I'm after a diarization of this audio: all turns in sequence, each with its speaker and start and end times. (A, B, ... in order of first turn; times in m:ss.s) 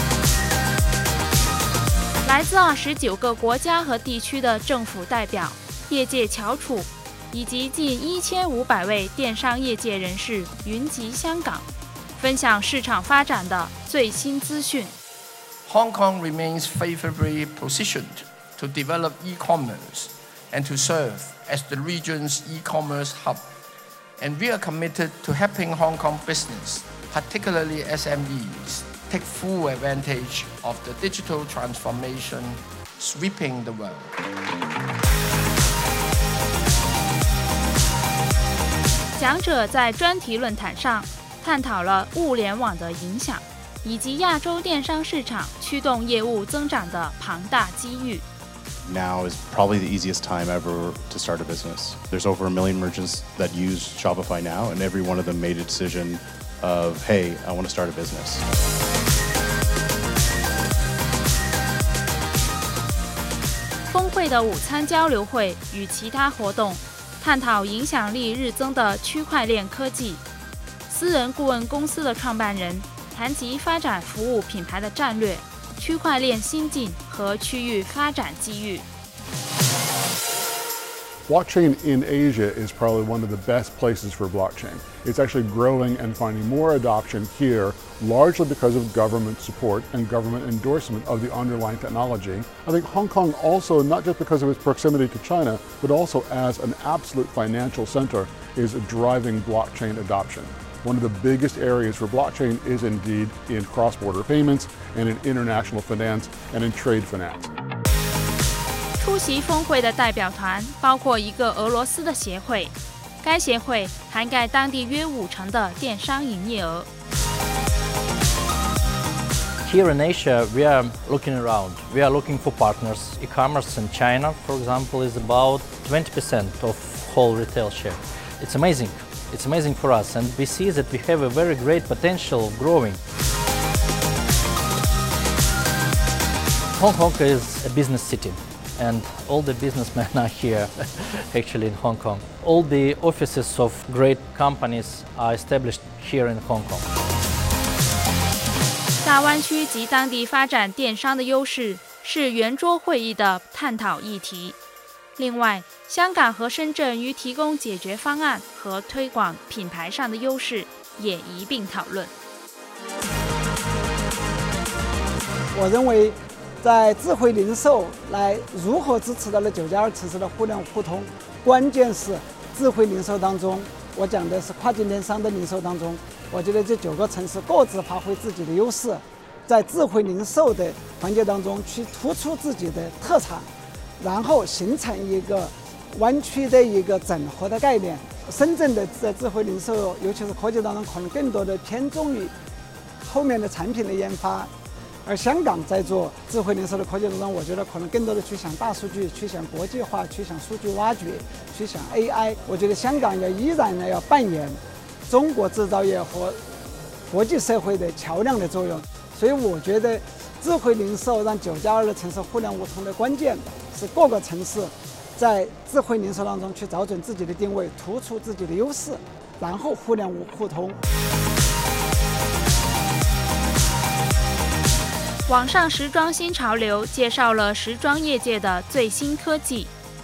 0:02.2-0:14.9 A
0:15.6-0:23.5 B
0:24.2-0:34.1 B
0:39.1-0:48.2 A
0:48.8-0:58.4 C
1:03.9-1:10.2 A
1:10.9-1:18.8 A
1:21.3-1:47.5 D
1:49.0-1:56.9 A
1:59.6-2:13.0 E
2:16.8-2:26.9 E
2:29.0-2:34.6 A
2:35.2-2:42.1 A
2:45.5-3:12.3 F
3:13.0-3:14.5 F
3:15.0-3:26.4 F
3:27.1-3:40.8 F
3:45.3-3:49.7 A